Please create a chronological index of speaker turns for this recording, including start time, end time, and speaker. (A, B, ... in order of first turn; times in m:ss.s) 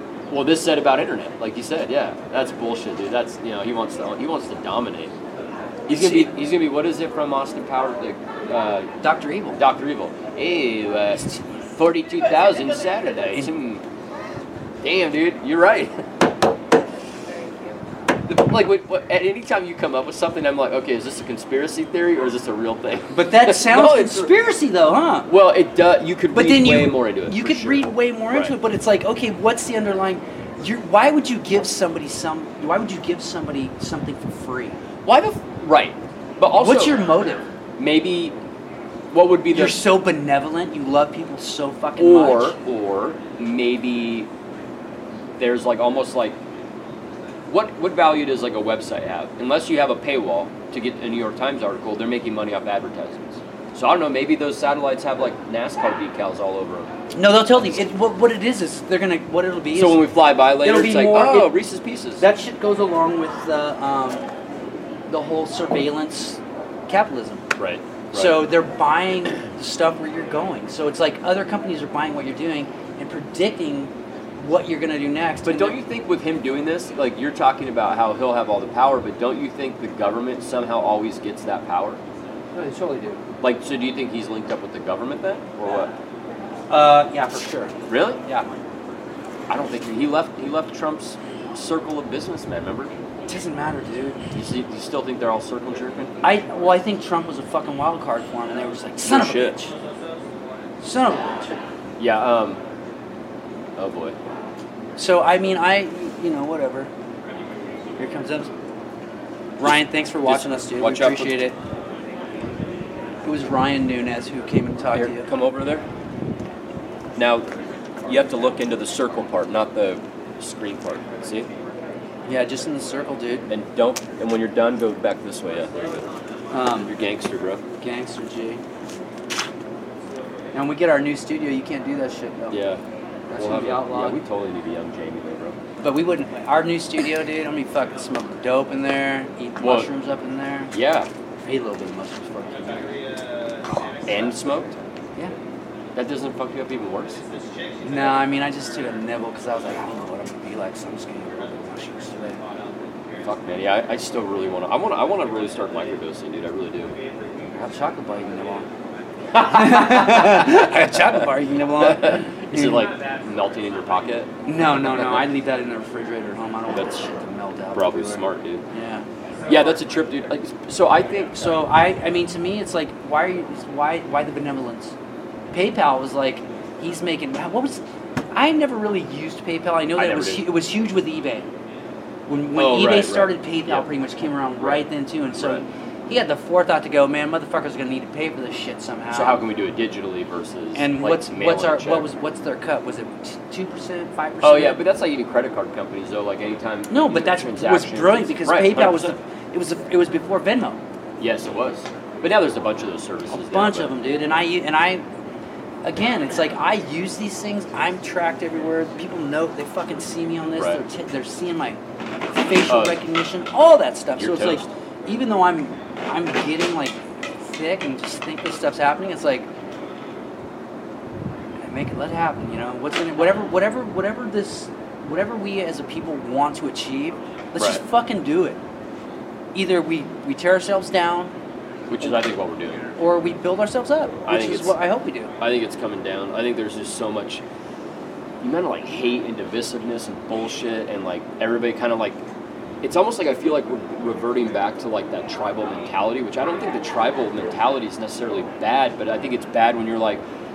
0:00.3-0:05.1 A
0:05.9-0:08.9 A
0:05.9-0:06.3 B
0:09.0-0:09.6 B
0:09.5-0:11.2 A
0:11.1-0:11.4 B
0:11.8-0:13.8 A
0:14.8-0:15.9 A
0:18.3-0:24.3 A
0:23.1-0:25.3 B
0:25.3-0:28.5 A
0:26.3-0:34.8 B
0:35.0-0:37.0 A
0:36.5-0:37.5 B
0:37.8-0:38.4 A
0:39.1-0:39.8 A
0:39.5-0:42.6 B
0:42.0-0:44.3 A
0:45.4-0:46.4 A
0:47.5-0:56.9 A
0:57.1-1:00.1 B
0:57.5-0:57.8 A
0:59.7-1:02.2 A
1:00.6-1:01.5 B
1:02.2-1:04.2 B
1:05.1-1:07.4 B
1:07.6-1:08.4 A
1:08.1-1:15.8 B
1:15.4-1:22.0 A
1:22.5-1:23.2 B
1:23.4-1:25.9 A
1:26.7-1:27.7 B
1:27.9-1:28.2 A
1:29.5-1:32.9 A
1:33.3-1:34.2 B
1:34.3-1:36.2 A
1:36.2-1:39.7 B
1:39.0-1:39.7 A
1:40.8-1:41.6 B
1:42.0-1:42.6 A
1:43.8-1:44.2 A
1:45.0-1:46.9 B
1:48.0-1:48.5 B
1:49.6-1:51.6 B
1:50.2-1:51.4 A
1:53.2-1:55.3 B
1:54.9-1:55.9 A
1:57.2-1:57.5 A
1:58.0-2:01.5 A
2:02.3-2:03.5 B
2:03.5-2:06.1 A
2:06.5-2:06.9 B
2:06.7-2:07.6 A
2:07.8-2:08.6 B
2:10.5-2:12.6 B
2:12.5-2:12.8 A
2:13.3-2:14.2 B
2:13.3-2:15.6 A
2:15.8-2:20.7 B
2:19.6-2:19.9 A
2:20.7-2:21.1 A
2:21.4-2:23.0 B
2:24.0-2:24.8 A
2:25.9-2:27.2 A
2:27.8-2:32.4 B
2:33.2-2:36.9 A
2:37.5-2:38.7 B
2:39.3-2:45.3 A
2:39.4-2:42.9 B
2:44.5-2:49.0 B
2:47.7-2:48.6 A
2:49.5-2:51.6 A
2:51.4-2:54.9 B
2:55.5-3:01.5 B
2:59.9-3:00.5 A
3:02.3-3:09.4 B
3:02.5-3:03.9 A
3:04.4-3:05.6 A
3:09.1-3:12.1 A
3:10.7-3:14.8 B
3:14.4-3:19.1 A
3:16.9-3:20.8 B
3:21.2-3:23.9 A
3:23.3-3:25.0 B
3:25.8-3:31.8 B
3:32.3-3:39.5 B
3:32.7-3:33.0 A
3:34.2-3:34.7 A
3:41.6-3:48.6 B
3:47.6-3:47.8 A
3:49.5-3:51.3 B
3:51.9-3:52.8 A
3:53.0-3:55.3 B
3:54.3-3:54.8 A
3:55.4-3:57.4 A
3:58.4-4:02.2 A
4:02.8-4:10.2 A